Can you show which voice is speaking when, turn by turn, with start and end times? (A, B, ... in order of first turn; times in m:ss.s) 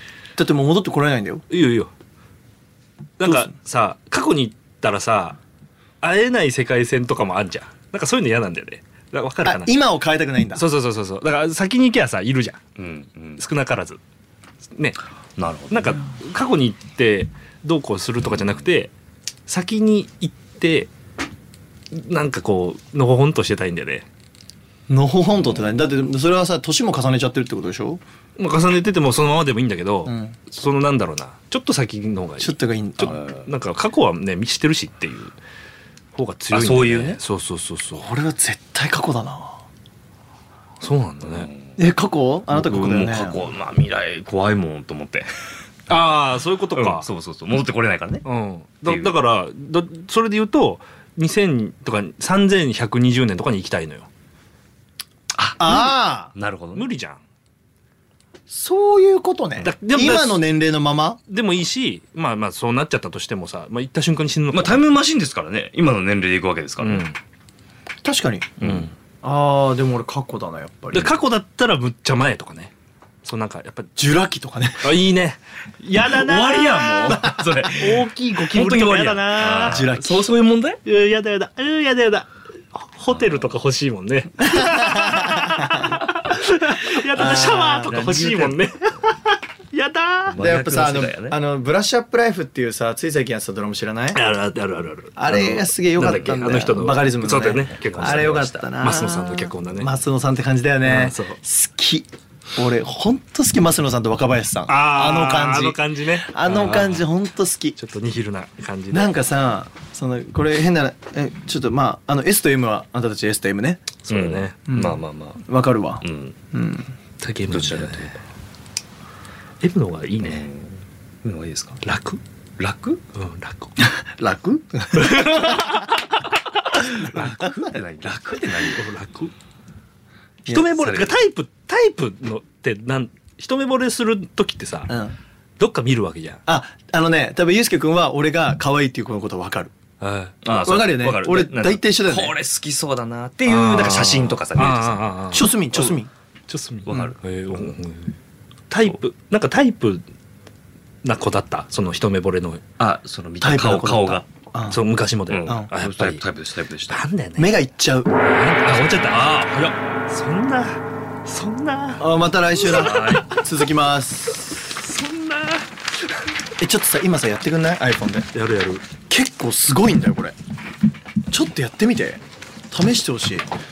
0:00.4-0:01.4 A
0:01.5-0:01.9 B
0:03.2-0:05.4 B
0:03.2-0:03.5 A
0:06.0-0:09.8 B
0:09.4-0:10.7 A
0:10.5-0:12.6 B
0:12.8-0:13.4 C
0:13.4-0:14.0 B
0:14.8-0:15.0 B
0:15.4-0:16.0 C
0:15.7-0:18.9 B
0:19.5-0:20.9 B
0:21.9-0:24.1 B
0:24.9-0:28.0 A
0:25.4-0:25.9 C
0:28.4-0:35.4 B
0:30.0-0:30.4 A
0:32.4-0:33.2 A
0:33.1-0:33.5 C
0:36.1-0:38.1 B
0:36.5-0:37.2 C
0:38.0-0:39.6 A
0:40.8-0:41.5 B
0:41.2-0:41.8 C
0:41.8-0:43.4 A
0:42.5-0:45.3 C
0:45.9-0:47.1 B
0:46.7-0:48.2 C
0:48.2-0:54.1 B
0:48.8-0:49.2 C
0:55.4-0:56.9 C
0:55.6-0:56.3 A
0:56.7-0:57.2 B
0:58.5-1:01.2 A
0:59.6-1:00.4 B
1:01.3-1:04.9 B
1:04.5-1:07.0 C
1:06.8-1:07.2 B
1:08.0-1:08.6 A
1:08.6-1:08.9 C
1:08.6-1:08.9 B
1:09.2-1:11.1 A
1:10.9-1:12.7 B
1:13.2-1:13.9 B
1:14.0-1:15.0 A
1:14.8-1:19.9 B
1:16.0-1:20.8 C
1:17.1-1:17.3 A
1:19.4-1:20.3 A
1:20.8-1:30.4 B
1:23.1-1:23.5 C
1:24.4-1:25.9 A
1:27.1-1:28.3 A
1:27.8-1:28.6 C
1:30.3-1:31.4 C
1:30.4-1:34.2 A
1:34.1-1:39.9 B
1:35.2-1:47.8 A
1:37.7-1:39.3 C
1:40.8-1:41.4 B
1:44.7-1:47.1 B
1:47.8-1:49.1 B
1:48.9-1:53.8 A
1:54.0-1:54.6 B
1:54.1-1:55.5 C
1:54.7-1:56.9 A
1:56.0-1:56.3 C
1:57.2-1:58.2 B
1:57.4-1:58.2 C
1:59.6-2:00.5 B
2:00.2-2:01.8 C
2:01.8-2:02.2 B
2:02.6-2:03.0 C
2:03.1-2:03.8 B
2:03.8-2:05.9 A
2:04.9-2:06.2 B
2:06.7-2:08.8 C
2:08.7-2:09.3 B
2:10.5-2:15.0 B
2:10.7-2:11.2 C
2:14.9-2:15.2 A
2:15.6-2:16.4 B
2:16.5-2:19.7 A
2:20.0-2:20.3 B
2:20.4-2:25.1 C
2:20.5-2:22.4 A
2:23.4-2:28.1 B
2:25.3-2:26.1 A
2:26.8-2:27.6 C
2:28.7-2:30.1 B
2:31.0-2:32.6 B
2:32.8-2:34.3 C
2:33.4-2:34.8 A
2:34.7-2:36.2 B
2:35.3-2:37.1 C
2:35.4-2:35.7 A
2:36.9-2:37.6 B
2:37.4-2:38.1 A
2:38.1-2:42.1 B
2:38.7-2:39.7 C
2:42.0-2:44.6 A
2:42.6-2:43.4 B
2:42.7-2:43.3 C
2:44.5-2:45.7 B
2:46.6-2:48.3 A
2:48.3-2:48.8 B
2:49.1-2:50.3 A
2:51.3-2:53.5 A